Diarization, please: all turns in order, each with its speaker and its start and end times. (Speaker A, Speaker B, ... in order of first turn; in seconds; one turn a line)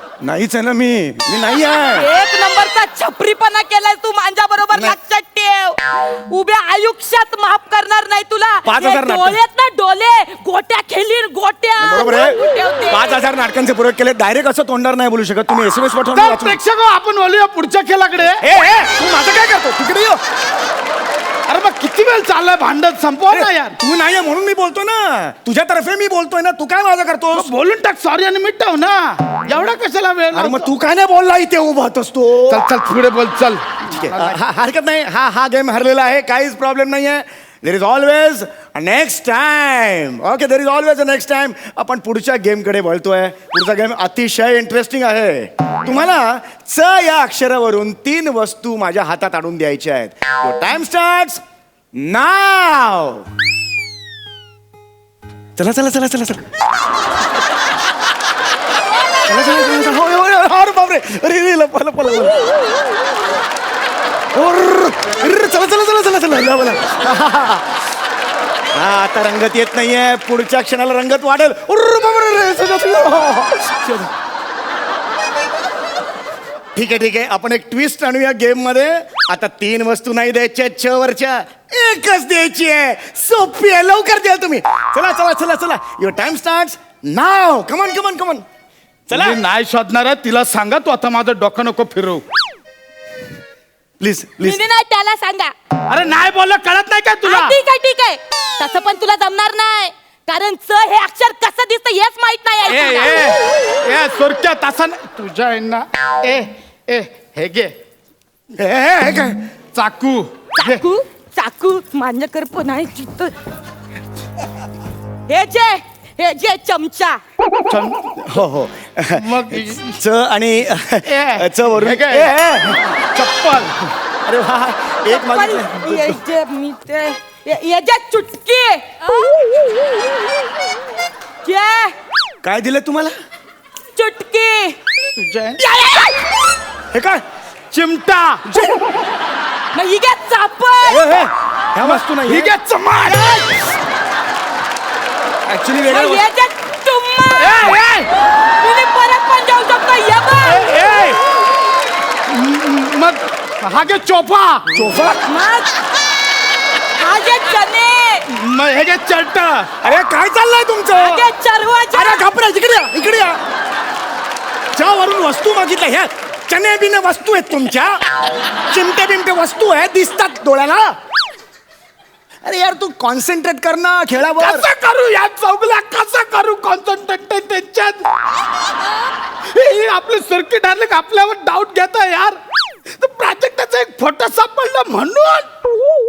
Speaker A: 0.2-2.1
Speaker B: 1.6-13.2
Speaker A: 4.7-5.0
Speaker A: 8.6-9.4
Speaker A: 11.8-16.6
Speaker C: 16.1-18.4
Speaker A: 18.4-20.2
Speaker C: 21.5-23.8
Speaker A: 23.3-27.5
Speaker C: 27.3-30.7
Speaker A: 30.3-32.6
Speaker C: 32.5-34.4
Speaker A: 33.9-51.4
Speaker A: 52.0-53.3
Speaker A: 55.6-56.4
Speaker A: 59.3-62.5
Speaker A: 64.3-67.7
Speaker A: 68.7-74.1
Speaker A: 76.8-88.4
Speaker A: 89.1-89.4
Speaker C: 89.1-92.2
Speaker A: 94.0-94.6
Speaker B: 94.4-95.5
Speaker C: 95.9-97.6
Speaker B: 97.2-103.3
Speaker C: 102.7-107.7
Speaker A: 108.6-109.5
Speaker C: 109.8-110.8
Speaker B: 110.5-113.3
Speaker B: 115.3-117.2
Speaker C: 117.7-118.1
Speaker A: 118.2-122.8
Speaker C: 119.2-120.0
Speaker C: 121.0-122.3
Speaker C: 123.0-123.7
Speaker A: 124.2-126.2
Speaker B: 125.1-129.4
Speaker B: 131.4-131.9
Speaker A: 132.4-133.1
Speaker B: 133.9-134.8
Speaker C: 135.2-135.6
Speaker B: 135.6-136.3
Speaker A: 136.9-137.2
Speaker C: 137.7-138.4
Speaker A: 138.5-138.8
Speaker B: 139.7-141.1
Speaker A: 140.9-142.5
Speaker C: 141.8-143.5
Speaker B: 143.1-143.5
Speaker A: 145.5-146.3
Speaker B: 145.8-147.8
Speaker C: 147.4-148.1
Speaker B: 148.6-150.6
Speaker C: 150.4-151.2
Speaker C: 152.3-154.8
Speaker A: 154.7-155.2
Speaker B: 155.3-155.8
Speaker B: 157.0-158.2
Speaker C: 158.3-159.7
Speaker A: 159.8-161.3
Speaker B: 160.9-162.3
Speaker A: 161.9-163.4
Speaker A: 164.7-168.0
Speaker A: 168.7-170.9
Speaker A: 172.4-174.7
Speaker C: 174.3-178.1
Speaker C: 179.5-182.4
Speaker C: 182.9-185.5